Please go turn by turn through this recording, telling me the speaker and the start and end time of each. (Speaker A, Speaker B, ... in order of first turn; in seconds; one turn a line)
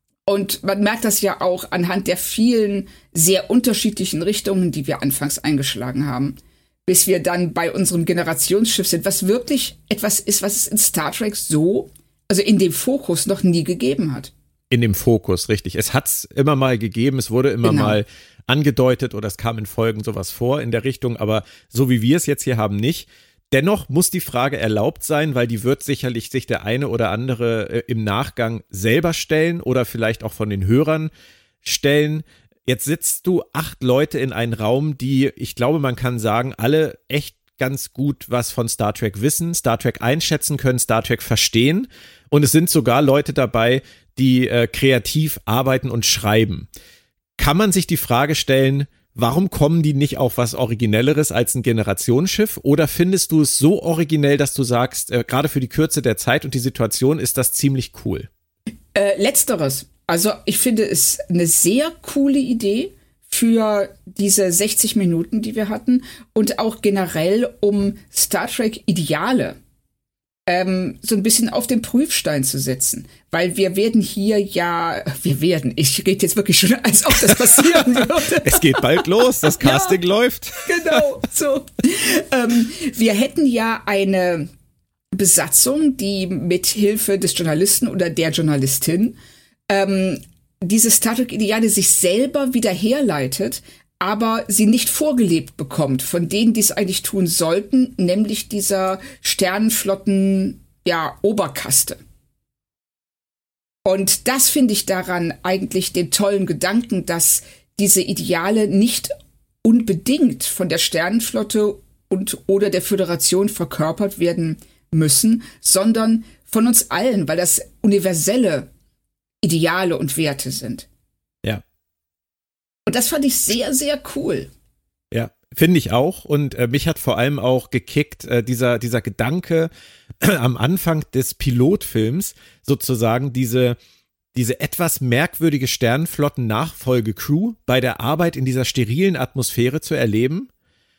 Speaker A: 0.2-14.3
Speaker B: 14.7-31.1
Speaker A: 17.6-18.0
Speaker B: 31.6-46.7
Speaker B: 47.4-58.3
Speaker A: 58.9-69.6
Speaker A: 70.5-80.0
Speaker B: 78.3-81.0
Speaker A: 80.6-84.5
Speaker A: 85.1-89.2
Speaker A: 89.7-102.0
Speaker A: 103.8-118.7
Speaker A: 119.4-120.8
Speaker A: 122.8-124.5
Speaker B: 125.1-129.7
Speaker B: 130.2-133.8
Speaker B: 134.3-140.5